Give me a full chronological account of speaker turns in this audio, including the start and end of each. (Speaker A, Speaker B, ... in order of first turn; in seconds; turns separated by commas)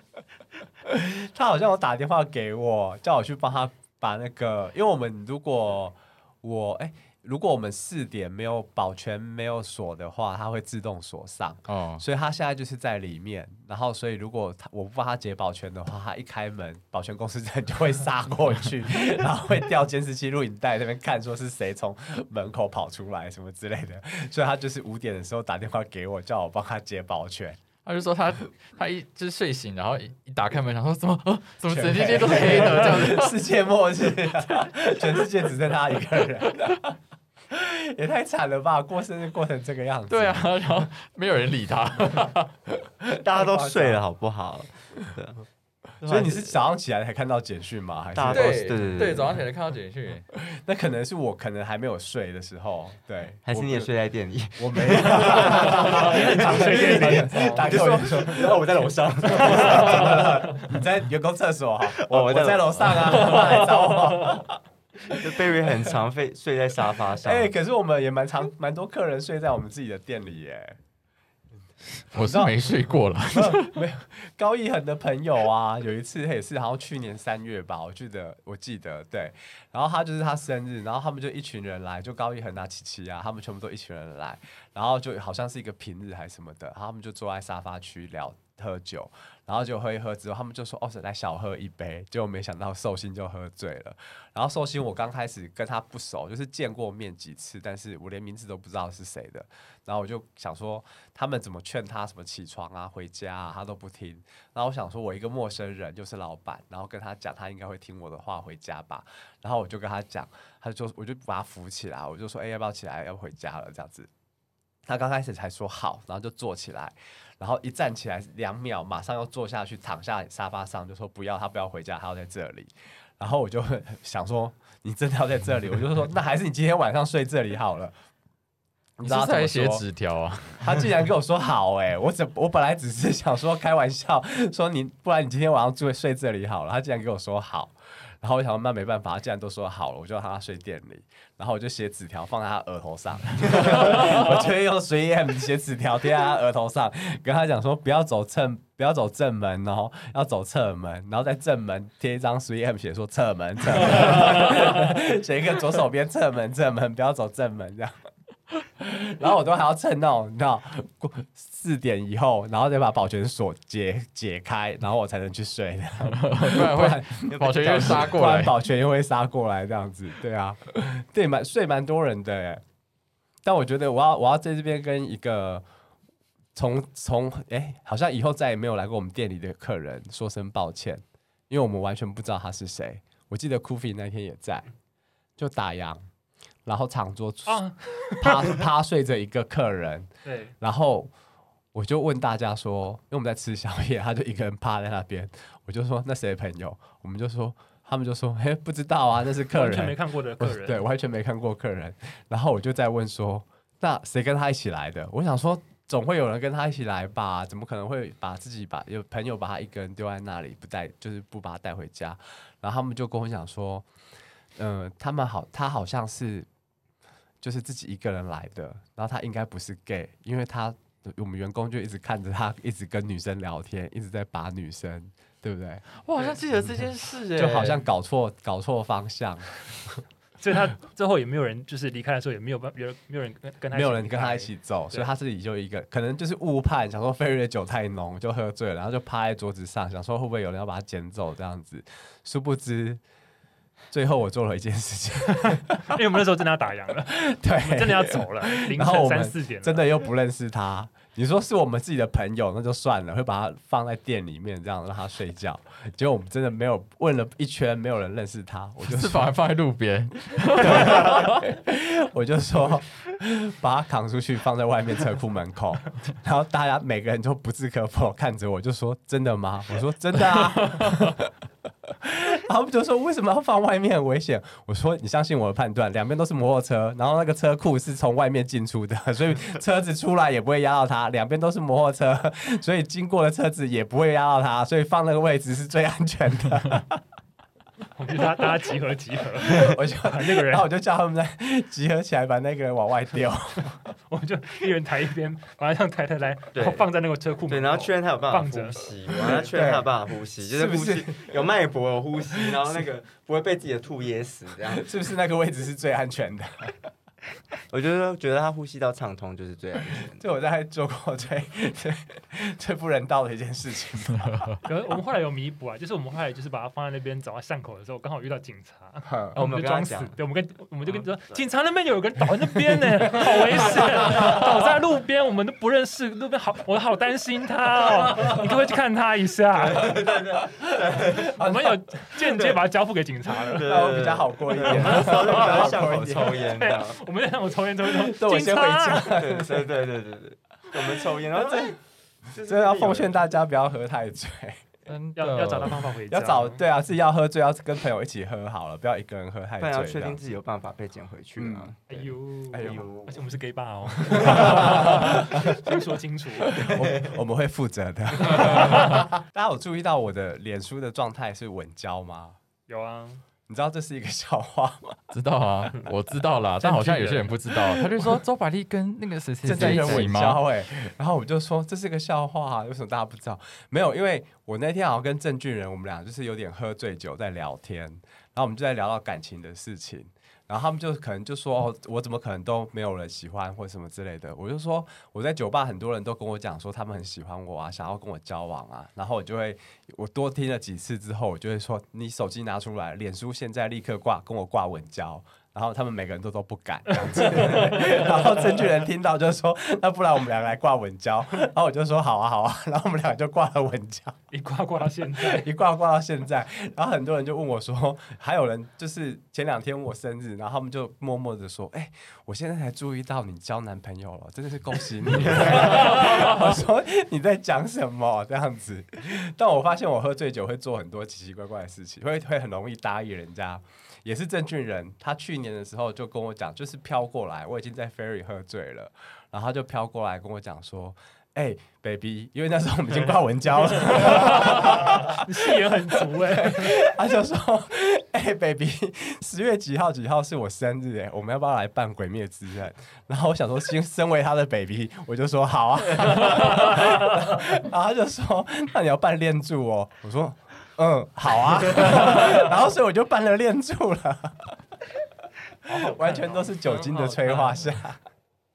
Speaker A: 0.8-27.6, Speaker B: 11.7-12.0, Speaker B: 27.8-33.4, Speaker A: 31.7-36.9, Speaker A: 37.5-40.6, Speaker B: 40.1-42.6, Speaker C: 43.1-45.5, Speaker A: 43.2-44.0, Speaker C: 46.0-46.6, Speaker A: 46.0-48.6, Speaker C: 48.1-49.4, Speaker B: 48.3-50.3, Speaker A: 50.3-53.9, Speaker C: 53.5-60.8, Speaker A: 54.6-65.9, Speaker D: 55.5-58.1, Speaker C: 61.9-64.4, Speaker C: 65.1-67.5, Speaker A: 67.2-70.8, Speaker B: 72.1-73.8, Speaker A: 72.1-114.1, Speaker A: 114.8-127.9, Speaker A: 129.0-129.8, Speaker B: 129.0-130.8, Speaker A: 130.6-158.1, Speaker A: 158.8-172.6, Speaker B: 166.1-168.6, Speaker C: 167.2-168.3, Speaker A: 173.4-175.6, Speaker A: 176.5-184.7, Speaker A: 185.4-186.0, Speaker A: 186.7-190.1, Speaker D: 187.5-188.5, Speaker D: 190.2-190.5, Speaker A: 190.6-191.1, Speaker A: 191.7-213.9, Speaker D: 199.5-200.8, Speaker A: 214.6-216.5, Speaker A: 217.4-225.8, Speaker B: 226.0-227.8, Speaker A: 227.3-230.0, Speaker D: 230.4-235.1, Speaker A: 233.7-243.0, Speaker A: 243.9-246.0, Speaker D: 245.5-249.9, Speaker A: 247.1-259.3, Speaker B: 258.9-261.5, Speaker A: 260.6-271.3, Speaker A: 271.8-287.0, Speaker D: 287.9-290.7, Speaker A: 289.4-293.8, Speaker D: 294.1-299.0, Speaker C: 296.5-296.8, Speaker C: 297.4-304.8, Speaker A: 299.3-301.3, Speaker A: 302.3-302.8, Speaker A: 304.7-306.8, Speaker C: 307.7-310.3, Speaker A: 310.2-314.5, Speaker B: 314.2-314.6, Speaker D: 314.6-330.0, Speaker A: 319.0-319.3, Speaker C: 319.3-320.2, Speaker A: 323.8-324.4, Speaker C: 329.5-331.4, Speaker D: 331.3-333.7, Speaker A: 331.4-331.7, Speaker C: 332.2-332.6, Speaker C: 333.4-337.0, Speaker A: 333.6-336.4, Speaker D: 334.6-335.6, Speaker D: 336.4-339.2, Speaker A: 337.9-339.7, Speaker C: 339.2-341.8, Speaker A: 340.8-341.7, Speaker C: 342.3-343.1, Speaker A: 342.4-344.6, Speaker B: 344.9-345.8, Speaker D: 345.1-346.6, Speaker A: 346.1-350.2, Speaker C: 349.6-353.2, Speaker A: 351.4-351.7, Speaker D: 351.9-356.9, Speaker A: 352.5-352.8, Speaker A: 354.0-355.8, Speaker A: 356.4-362.4, Speaker D: 358.3-359.0, Speaker D: 362.7-363.2, Speaker A: 363.5-365.1, Speaker B: 365.1-370.7, Speaker D: 366.6-367.4, Speaker A: 369.4-404.2, Speaker D: 369.6-369.9, Speaker C: 369.6-370.0, Speaker D: 397.6-397.9, Speaker D: 404.3-405.5, Speaker A: 405.2-454.6, Speaker C: 415.3-416.0, Speaker D: 434.1-436.8, Speaker A: 455.6-458.0, Speaker D: 455.7-457.3